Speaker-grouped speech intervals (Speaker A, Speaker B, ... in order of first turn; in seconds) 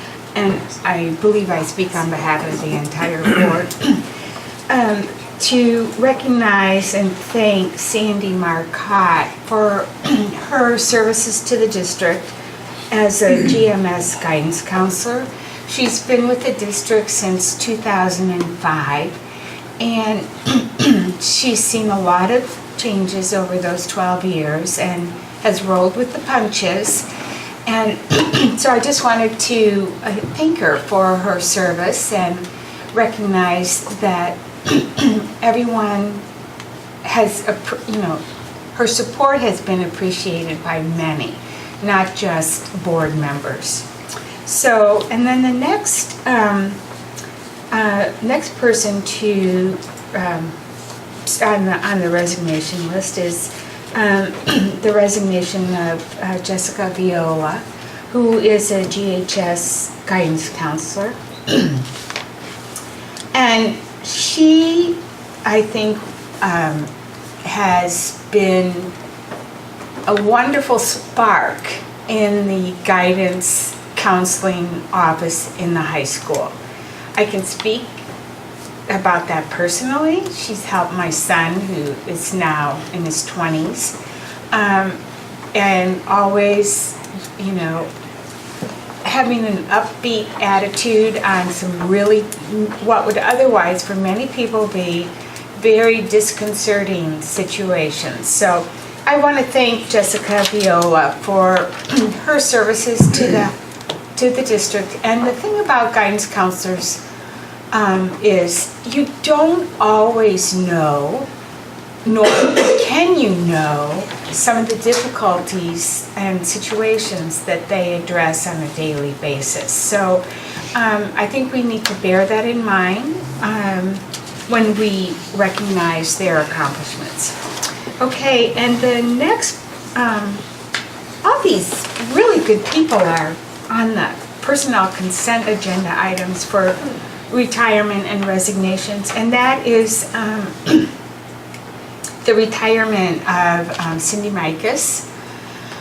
Speaker A: 0.3-4.0, 4.7-12.3, 12.9-19.1, 19.8-27.1, 27.6-36.2, 37.0-38.2, 38.7-43.9, 44.4-46.8, 47.7-50.5, 51.2-61.8, 63.3-66.9, 67.4-68.9, 70.0-76.5, 77.2-78.0, 78.9-84.0, 84.5-85.0, 85.5-87.9, 89.0-103.5, 104.2-107.0, 107.7-111.3, 112.0-127.3, 128.0-130.4, 131.2-136.8, 137.3-140.9, 142.2-145.1